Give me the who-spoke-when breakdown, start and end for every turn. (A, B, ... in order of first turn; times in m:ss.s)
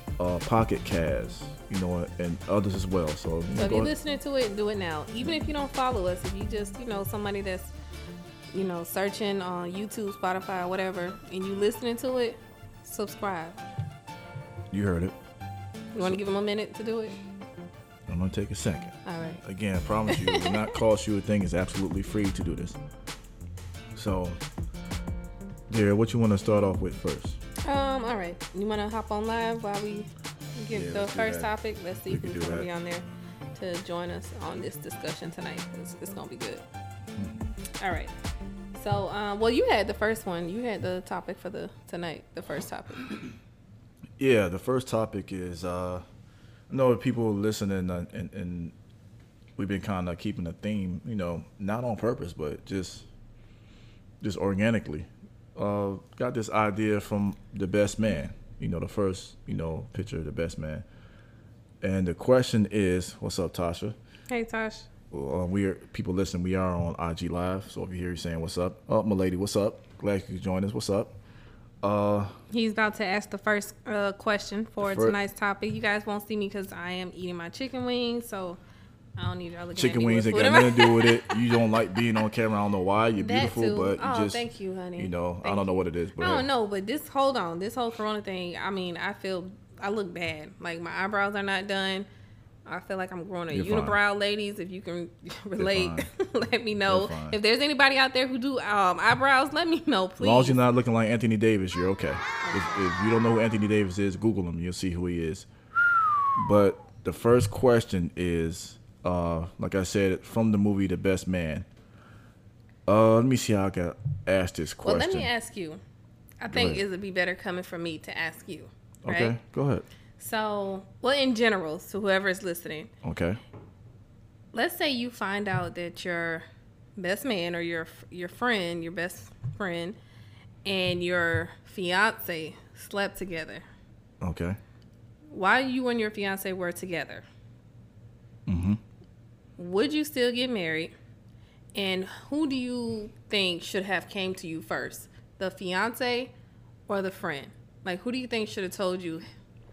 0:00.2-0:03.9 A
0:03.5-0:07.7 B
0:08.5-0:13.6 B
0:14.7-0:15.2 A
0:15.9-0:17.2 B
0:18.1-0:22.8 A
0:19.0-0:19.4 B
0:20.1-0:20.7 B
0:23.9-0:24.4 A
0:25.7-0:27.4 A
0:27.6-0:36.6 B
0:30.7-0:31.5 A
0:32.1-0:32.7 A
0:37.8-0:38.1 B
0:38.7-0:43.2 B
0:44.2-0:46.0 A
0:46.7-0:48.7 A
0:49.6-0:53.1 A
0:54.2-1:00.8 A
1:01.8-1:04.0 A
1:04.3-1:04.9 B
1:05.1-1:11.1 A
1:11.8-1:12.4 A
1:12.5-1:18.6 B
1:14.8-1:15.2 A
1:19.2-1:22.2 B
1:19.8-1:24.4 A
1:23.2-1:32.1 B
1:25.0-1:26.4 A
1:32.6-1:40.6 B
1:33.5-1:34.0 A
1:35.6-1:36.1 A
1:36.9-1:37.4 A
1:40.2-1:45.5 A
1:42.4-1:42.8 B
1:46.4-1:51.6 A
1:52.9-1:55.3 A
1:54.8-1:55.8 B
1:56.4-1:59.4 B
1:56.5-1:56.8 A
1:59.0-1:59.8 A
2:00.2-2:02.9 B
2:03.0-2:03.4 A
2:04.5-2:06.4 B
2:07.0-2:10.0 B
2:10.6-2:13.6 B
2:14.2-2:14.6 A
2:15.3-2:17.2 B
2:18.5-2:18.8 A
2:19.6-2:20.9 B
2:21.7-2:26.3 B
2:26.9-2:29.2 B